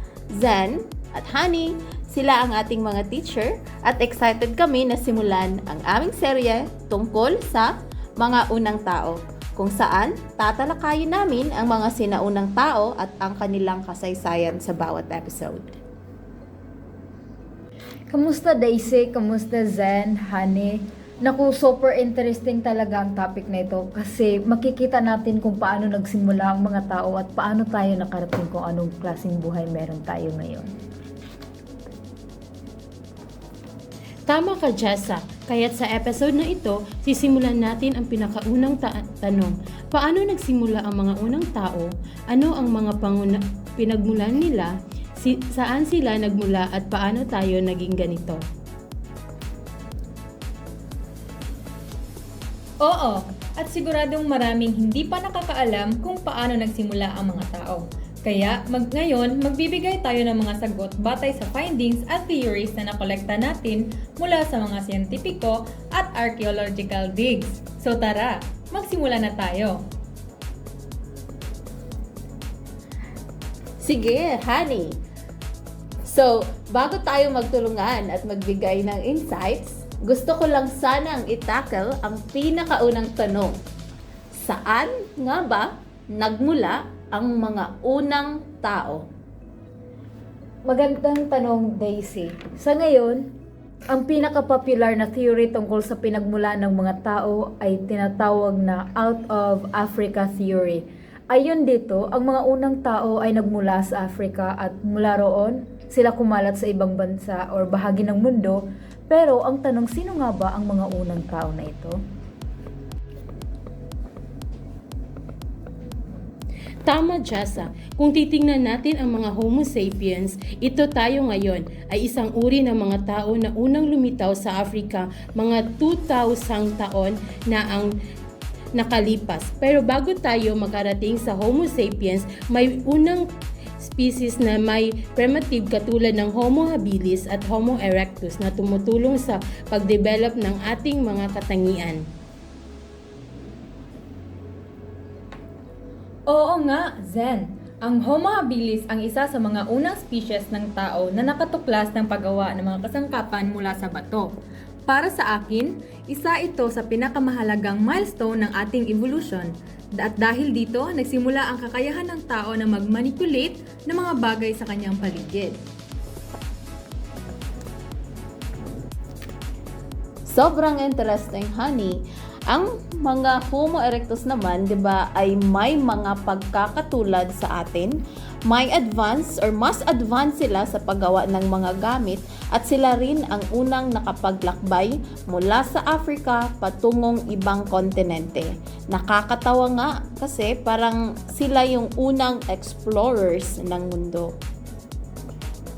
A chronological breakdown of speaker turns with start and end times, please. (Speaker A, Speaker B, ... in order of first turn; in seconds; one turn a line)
Speaker A: 0.3-15.7
Speaker B: 18.1-30.7
Speaker C: 34.3-48.4
Speaker D: 52.8-69.8
Speaker A: 73.8-74.9
Speaker A: 76.0-83.6
Speaker A: 84.3-89.0
Speaker B: 90.7-93.3
Speaker B: 93.9-112.0
Speaker C: 116.8-127.9
Speaker C: 128.7-133.2
Speaker C: 133.8-142.0
Speaker D: 146.3-154.3
Speaker D: 154.9-165.6
Speaker A: 170.2-178.0
Speaker A: 178.5-194.3